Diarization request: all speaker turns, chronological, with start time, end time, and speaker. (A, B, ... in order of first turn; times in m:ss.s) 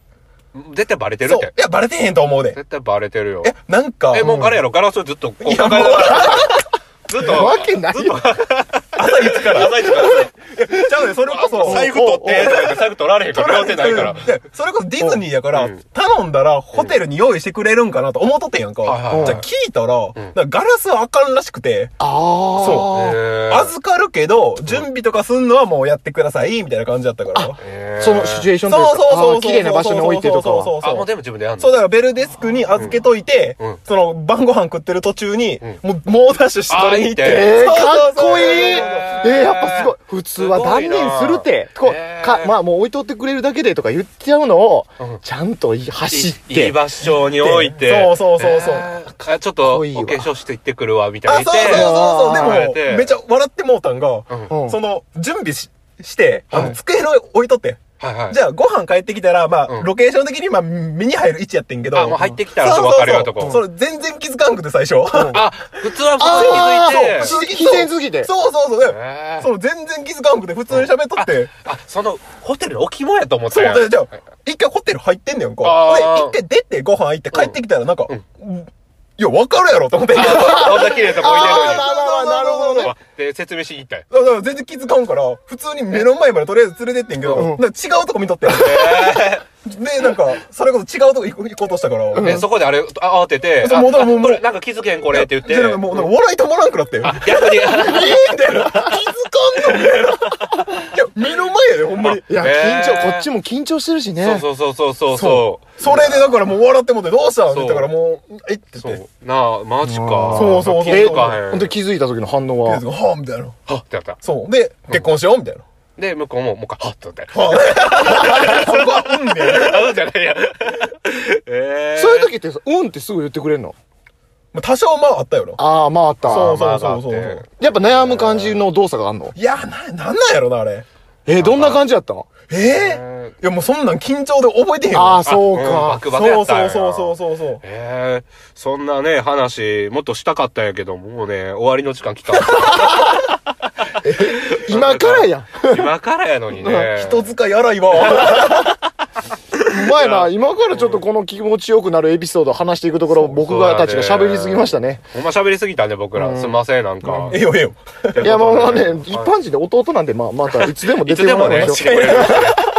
0:00.5-0:01.5 A
0:01.2-0:02.6 B
0:02.5-0:03.5 A
0:03.4-0:04.3 B
0:04.1-0:10.3 A
0:04.2-0:04.6 C
0:05.4-0:06.5 B
0:06.1-0:06.6 C
0:07.2-0:08.3 C
0:09.0-0:22.0 B
0:09.8-0:10.2 C
0:11.3-0:14.3 A
0:11.6-0:12.7 C
0:15.5-0:15.8 A
0:18.8-0:19.5 A
0:19.1-0:19.4 C
0:22.0-0:23.2 C
0:22.6-0:23.0 B
0:22.9-0:23.7 A
0:23.5-0:27.6 B
0:27.3-0:30.7 C
0:27.6-0:28.5 A
0:28.7-0:31.1 B
0:30.8-0:31.8 A
0:31.6-0:39.1 B
0:32.8-0:33.0 A
0:36.7-0:37.6 A
0:37.2-0:46.8 C
0:38.2-0:42.6 A
0:46.1-0:53.1 A
0:47.3-0:48.9 B
0:49.6-0:50.3 C
0:51.3-1:11.5 B
0:51.6-0:52.7 C
0:54.5-0:54.8 C
0:56.5-0:56.8 C
0:58.0-0:58.4 A
1:01.9-1:03.6 A
1:05.1-1:05.4 C
1:05.3-1:07.4 A
1:06.2-1:08.3 C
1:08.8-1:09.5 A
1:10.7-1:14.0 A
1:13.5-1:23.0 B
1:15.6-1:16.4 A
1:20.1-1:21.9 A
1:20.2-1:22.9 C
1:22.8-1:24.1 A
1:24.1-1:32.4 B
1:27.3-1:27.6 C
1:28.5-1:29.4 A
1:32.1-1:32.5 C
1:32.2-1:36.1 A
1:33.6-1:34.4 B
1:35.1-1:42.3 B
1:37.0-1:38.2 A
1:37.7-1:39.0 C
1:42.0-1:43.3 A
1:42.2-1:44.5 C
1:44.2-1:46.4 A
1:45.1-1:49.0 B
1:47.5-1:47.9 A
1:48.8-1:51.8 A
1:49.8-1:52.8 C
1:50.3-1:51.4 B
1:52.7-1:53.6 B
1:53.7-1:54.2 A
1:54.2-1:55.6 B
1:56.0-2:02.3 A
1:57.3-1:59.9 B
1:58.2-1:58.6 C
2:02.0-2:03.8 C
2:04.5-2:05.6 B
2:05.6-2:06.6 C
2:06.2-2:07.4 B
2:06.2-2:08.6 A
2:07.6-2:09.4 C
2:09.4-2:10.9 B
2:11.3-2:12.3 C
2:11.4-2:11.8 A
2:12.5-2:15.3 B
2:12.7-2:13.4 A
2:14.9-2:16.1 C
2:15.2-2:23.1 A
2:16.1-2:17.6 B
2:22.8-2:23.2 C
2:24.0-2:25.9 C
2:24.1-2:27.3 A
2:26.5-2:26.9 C
2:27.0-2:28.8 B
2:28.0-2:28.7 A
2:29.6-2:31.0 A
2:29.6-2:35.0 C
2:33.1-2:37.4 A
2:36.2-2:36.6 C
2:37.0-2:38.3 B
2:38.1-2:39.3 A
2:38.2-2:42.6 C
2:40.5-2:42.6 A
2:41.4-2:42.6 B